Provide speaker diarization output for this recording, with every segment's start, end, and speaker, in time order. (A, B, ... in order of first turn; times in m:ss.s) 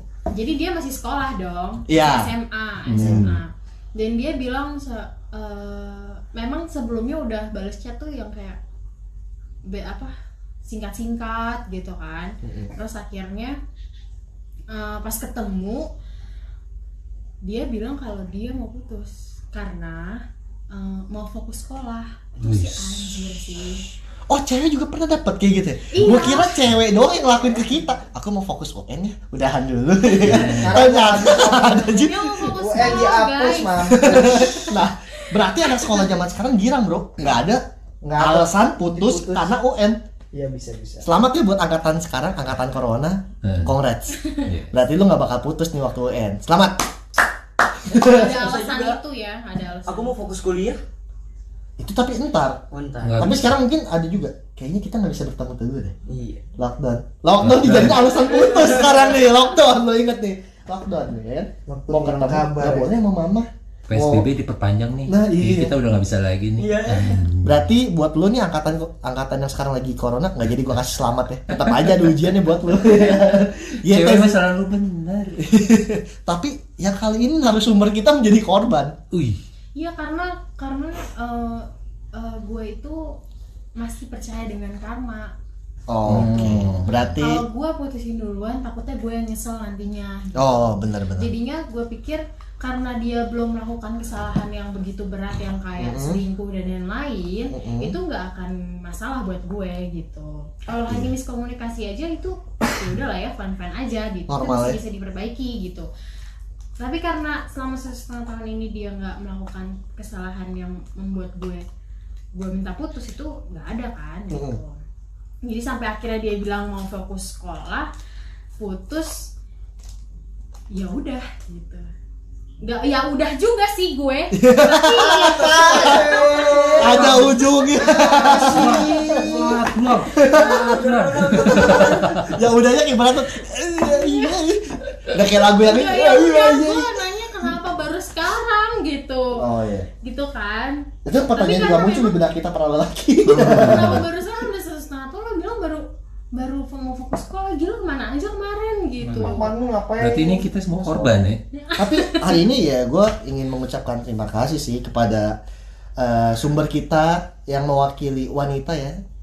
0:00.3-0:08.6 A
0:01.9-0:02.3 B
0:02.9-0:03.4 C
0:03.0-0:03.3 B
0:09.7-0:10.1 A
0:10.6-0:13.6 A
0:12.4-0:12.7 B
0:14.7-0:15.9 A
0:17.4-0:23.8 A
0:22.4-0:23.2 C
0:24.3-0:33.1 B
0:25.9-0:26.6 A
0:30.2-0:30.9 C
0:30.2-0:34.7 D
0:31.8-0:34.5 A
0:33.9-0:37.6 B
0:35.8-0:36.0 A
0:38.0-0:39.5 D
0:38.2-0:40.0 B
0:40.3-0:41.1 D
0:41.0-0:44.2 B
0:43.4-0:43.8 C
0:44.4-0:44.7 C
0:44.7-0:46.8 B
0:47.9-0:48.3 B
0:47.9-0:50.2 A
0:48.0-0:49.0 E
0:49.9-0:50.8 E
0:51.8-0:52.6 B
0:52.7-0:53.4 E
0:53.0-0:53.5 C
0:53.2-0:56.0 B
0:56.1-0:56.4 E
0:56.6-1:04.3 B
0:57.4-0:58.1 C
0:58.0-0:59.3 A
0:58.4-0:59.0 E
1:01.7-1:02.9 D
1:03.9-1:07.7 C
1:05.1-1:05.7 B
1:06.6-1:07.2 E
1:07.4-1:14.4 B
1:11.5-1:12.0 C
1:12.8-1:13.4 C
1:13.9-1:15.5 C
1:15.4-1:19.0 B
1:19.1-1:19.4 C
1:19.8-1:23.2 A
1:23.8-1:25.3 A
1:25.9-1:27.4 B
1:26.1-1:27.2 C
1:27.2-1:45.9 A
1:30.4-1:31.3 B
1:35.8-1:36.2 B
1:37.5-1:38.0 B
1:44.3-1:44.8 B
1:46.8-1:51.6 A
1:52.4-1:54.8 A
1:54.3-1:54.6 B
1:55.4-1:57.9 A
1:58.6-1:59.3 A
2:00.7-2:01.9 A
2:02.6-2:05.5 A
2:04.3-2:06.2 B
2:05.1-2:07.3 E
2:05.4-2:09.6 D
2:06.8-2:09.5 B
2:08.3-2:12.4 C
2:08.4-2:09.3 E
2:10.1-2:10.7 B
2:10.1-2:12.2 E
2:11.4-2:17.6 B
2:13.8-2:14.4 A
2:15.4-2:19.5 A
2:19.4-2:19.9 B
2:20.0-2:22.2 A
2:21.0-2:24.1 B
2:23.3-2:24.1 C
2:23.4-2:29.5 A
2:29.0-2:31.4 C
2:29.2-2:30.5 D
2:30.8-2:35.4 B
2:31.5-2:32.5 A
2:36.0-2:39.0 B